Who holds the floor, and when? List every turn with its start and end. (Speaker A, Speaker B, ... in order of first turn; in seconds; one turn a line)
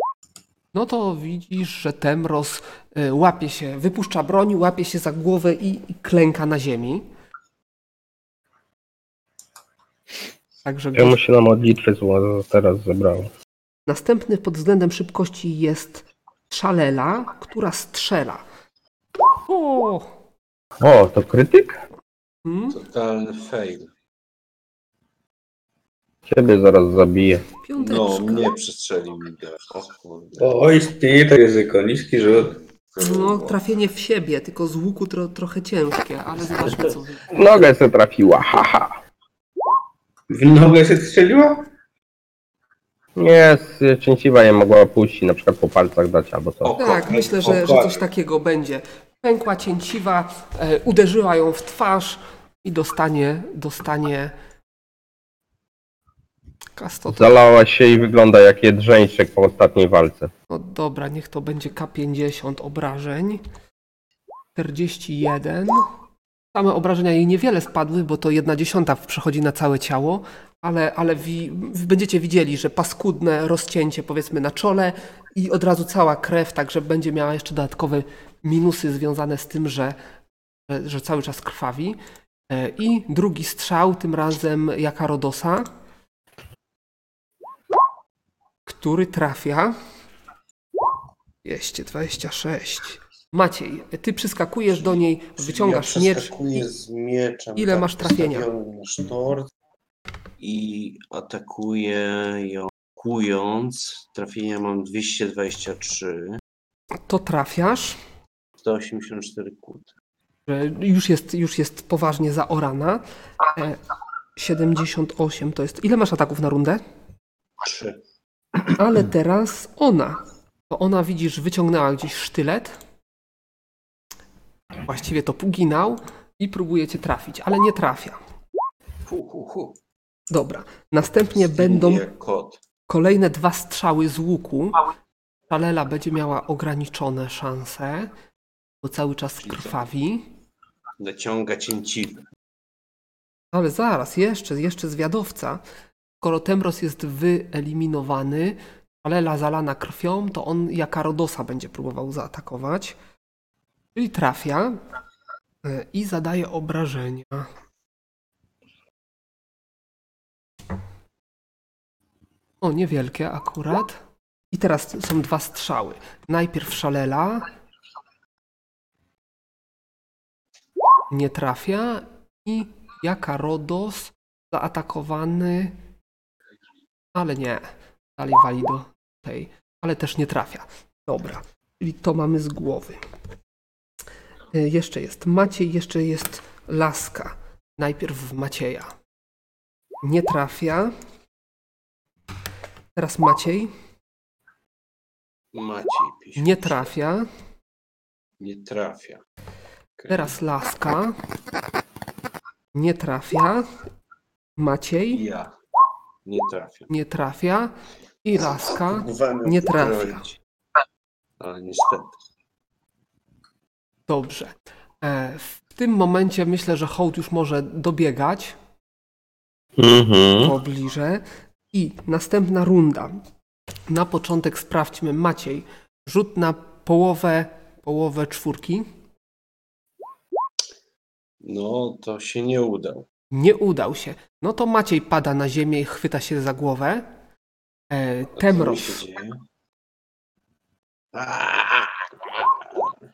Speaker A: 0.7-7.0
Speaker A: 10.6-11.2
Speaker B: 10.9-13.3
Speaker A: 13.9-18.4
Speaker A: 19.5-20.1
Speaker B: 20.8-21.8
Speaker A: 22.4-22.8
Speaker C: 22.7-23.9
Speaker B: 26.3-27.4
Speaker A: 27.6-28.5
Speaker C: 27.8-30.5
Speaker D: 30.4-32.5
Speaker C: 32.9-33.6
Speaker A: 33.0-37.2
Speaker B: 37.3-39.0
Speaker D: 40.3-41.7
Speaker B: 43.2-46.7
Speaker C: 46.6-47.6
Speaker A: 46.8-54.3
Speaker D: 47.5-47.9
Speaker A: 56.8-57.4
Speaker B: 57.1-60.3
Speaker A: 60.5-63.4
Speaker A: 64.5-65.9
Speaker A: 66.5-80.0
Speaker A: 80.7-82.0
Speaker A: 82.5-85.7
Speaker A: 88.7-89.8
Speaker A: 91.4-96.3
Speaker C: 94.8-99.5
Speaker A: 97.5-98.5
Speaker C: 100.4-106.4
Speaker A: 107.0-108.0
Speaker C: 108.6-109.9
Speaker A: 110.5-113.0
Speaker A: 114.3-116.8
Speaker C: 117.6-118.0
Speaker A: 118.8-122.8
Speaker A: 124.8-128.2
Speaker C: 129.1-129.8
Speaker A: 130.3-132.0
Speaker C: 131.3-132.6
Speaker A: 132.9-134.8
Speaker A: 135.5-138.1
Speaker A: 138.8-140.3
Speaker C: 139.4-139.7
Speaker C: 141.0-142.2
Speaker A: 143.5-145.6
Speaker A: 146.2-153.0
Speaker A: 153.9-154.8
Speaker A: 155.6-157.5
Speaker A: 162.6-164.0
Speaker A: 164.5-167.4
Speaker A: 171.1-175.8
Speaker A: 177.1-183.0
Speaker A: 184.5-188.9
Speaker A: 190.0-190.9
Speaker A: 192.9-193.7
Speaker C: 195.5-196.8
Speaker A: 196.4-197.3
Speaker C: 198.4-199.2
Speaker C: 200.0-200.3
Speaker A: 200.1-201.2
Speaker A: 202.7-203.7
Speaker A: 204.6-205.2
Speaker C: 205.1-205.5
Speaker C: 206.2-206.9
Speaker A: 206.9-207.7
Speaker A: 208.2-210.2
Speaker C: 208.8-210.3
Speaker C: 211.4-212.1
Speaker A: 214.1-218.6
Speaker B: 219.8-220.5
Speaker A: 220.4-223.2
Speaker A: 223.9-228.8
Speaker C: 231.4-233.1
Speaker A: 233.3-237.1
Speaker A: 237.9-239.0
Speaker C: 238.4-239.4
Speaker C: 241.1-242.9